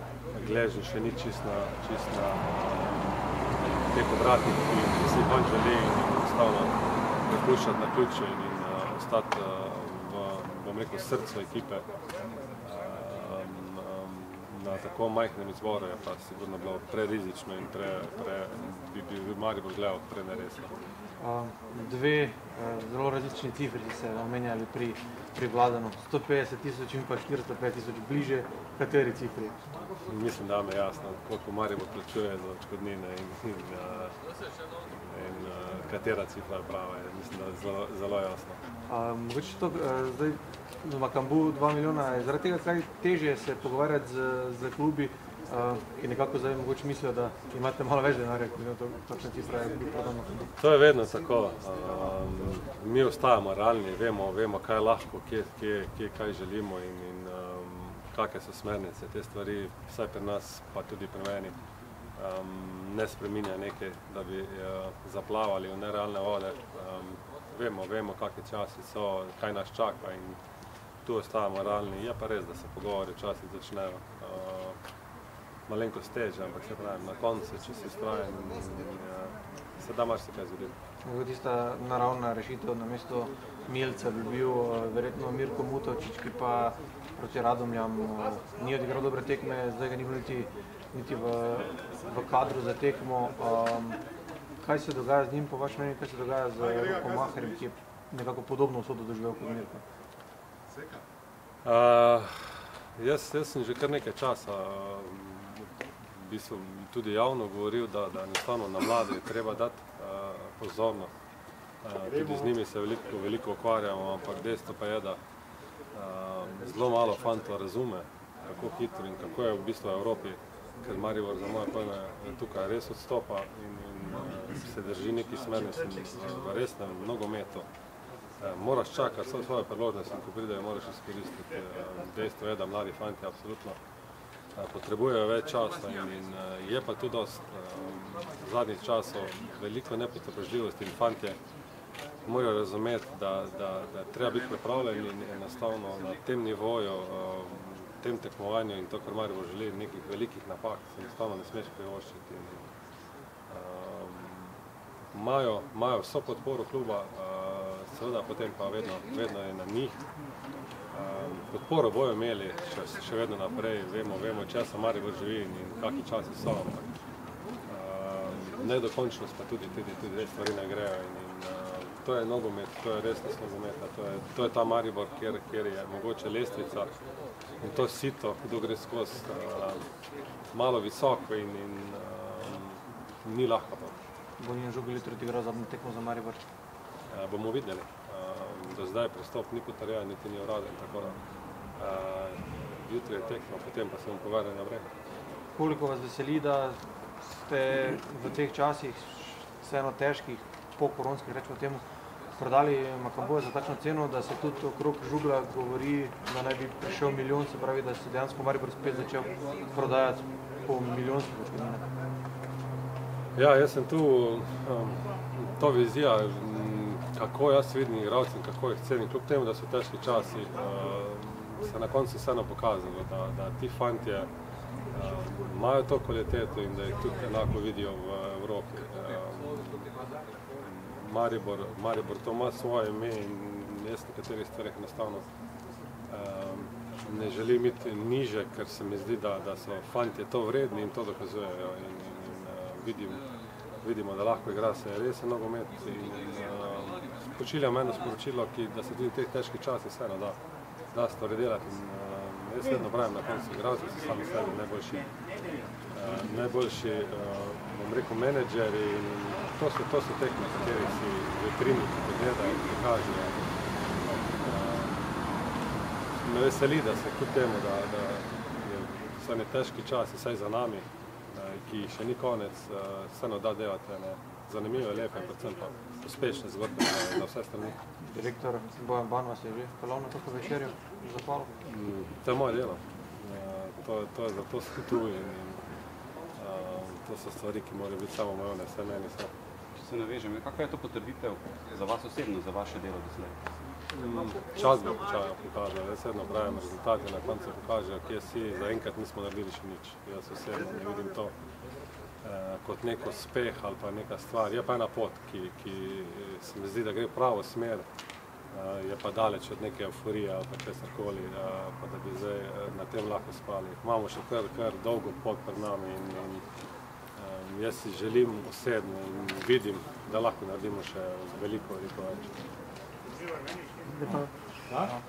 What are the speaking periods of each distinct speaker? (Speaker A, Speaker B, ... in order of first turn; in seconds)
Speaker A: 0.3-11.9, 12.6-20.7, 30.1-34.2, 34.9-38.6, 50.6-61.5, 62.2-70.4, 71.0-74.8, 75.7-80.7, 101.7-111.1, 111.8-115.2, 115.9-127.7, 128.4-133.8, 134.6-141.4, 142.2-152.6, 153.5-154.6, 155.1-160.0, 160.9-166.9, 167.7-176.9, 177.6-179.8, 180.5-184.0, 187.1-191.2, 191.8-194.9, 213.4-224.3, 224.9-229.9, 230.6-235.2, 236.1-243.2, 243.8-250.4, 250.9-255.1, 255.9-263.4, 264.0-265.1, 266.2-277.8, 281.7-285.6, 286.4-289.3, 293.9-301.4, 302.2-307.9, 308.5-316.4, 317.1-322.4
Speaker B: 21.2-29.6, 38.9-50.5, 81.0-94.0, 94.6-99.8, 184.4-186.4, 195.6-201.8, 202.4-211.8, 278.0-281.5
Speaker C: 289.8-293.4